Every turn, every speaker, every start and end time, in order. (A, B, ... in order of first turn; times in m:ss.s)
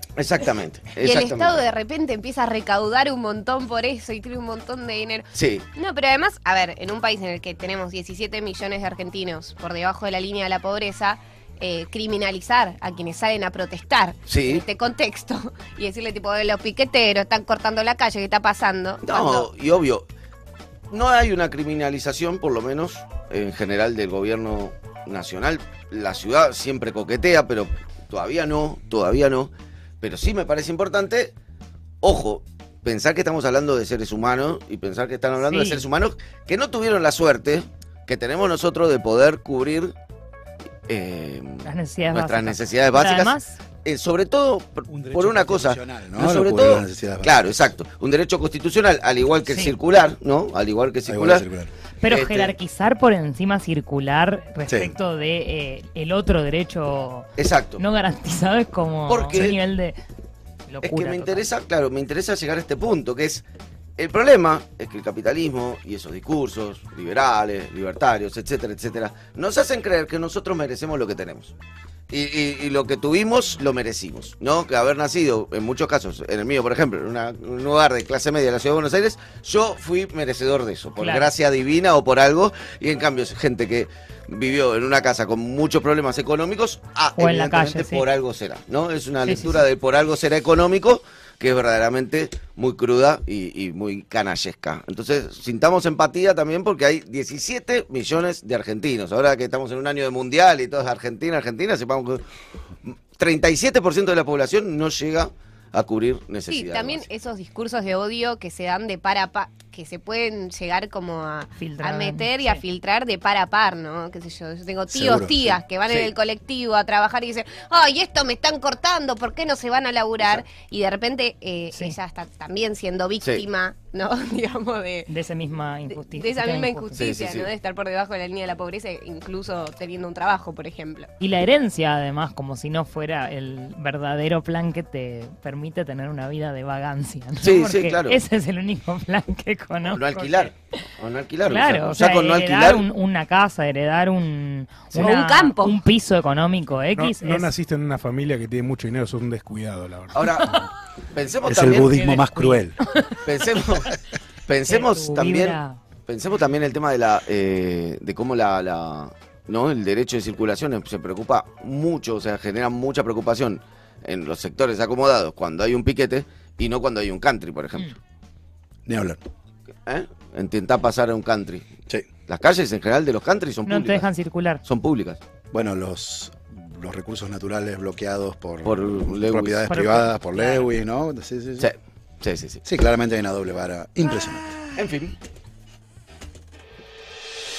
0:00.2-0:01.7 A
0:00.9-0:19.5 B
0:05.3-0:05.6 A
0:14.3-0:14.6 A
0:19.0-0:20.0 A
0:20.9-0:31.3 A
0:32.0-0:39.9 A
0:35.4-0:35.8 C
0:40.9-0:51.4 A
0:41.6-0:43.6 C
0:44.9-0:47.7 D
0:49.5-0:49.8 C
0:51.0-0:51.7 D
0:52.0-1:00.0 C
0:52.1-0:52.6 A
0:54.7-0:55.0 D
0:57.4-0:57.8 A
0:59.1-0:59.6 A
1:00.7-1:01.5 C
1:00.8-1:03.4 A
1:04.0-1:11.5 A
1:12.1-1:42.2 A
1:21.0-1:21.3 C
1:27.2-1:28.0 C
1:29.2-1:29.6 C
1:42.8-1:47.1 A
1:46.5-2:05.1 B
1:51.6-1:52.6 C
1:54.9-1:55.4 D
1:55.9-1:56.1 A
2:00.2-2:00.5 A
2:01.7-2:02.0 C
2:05.1-2:07.1 C
2:05.9-2:11.1 B
2:07.0-2:07.5 A
2:11.2-2:20.5 C
2:17.4-2:18.2 A
2:19.8-2:22.8 A
2:21.4-2:27.5 C
2:24.9-2:25.8 B
2:27.0-2:30.3 E
2:30.1-2:30.5 A
2:31.1-2:32.1 A
2:31.5-2:32.8 D
2:32.0-2:33.2 C
2:33.2-2:47.9 A
2:34.6-2:35.8 C
2:48.8-2:49.2 D
2:49.8-2:51.6 A
2:52.3-2:54.1 A
2:53.6-2:54.6 C
2:54.6-2:55.2 A
2:55.5-3:01.7 D
2:58.6-2:59.7 A
2:59.7-3:00.7 C
3:01.6-3:02.6 A
3:02.6-3:04.6 D
3:04.8-3:05.2 A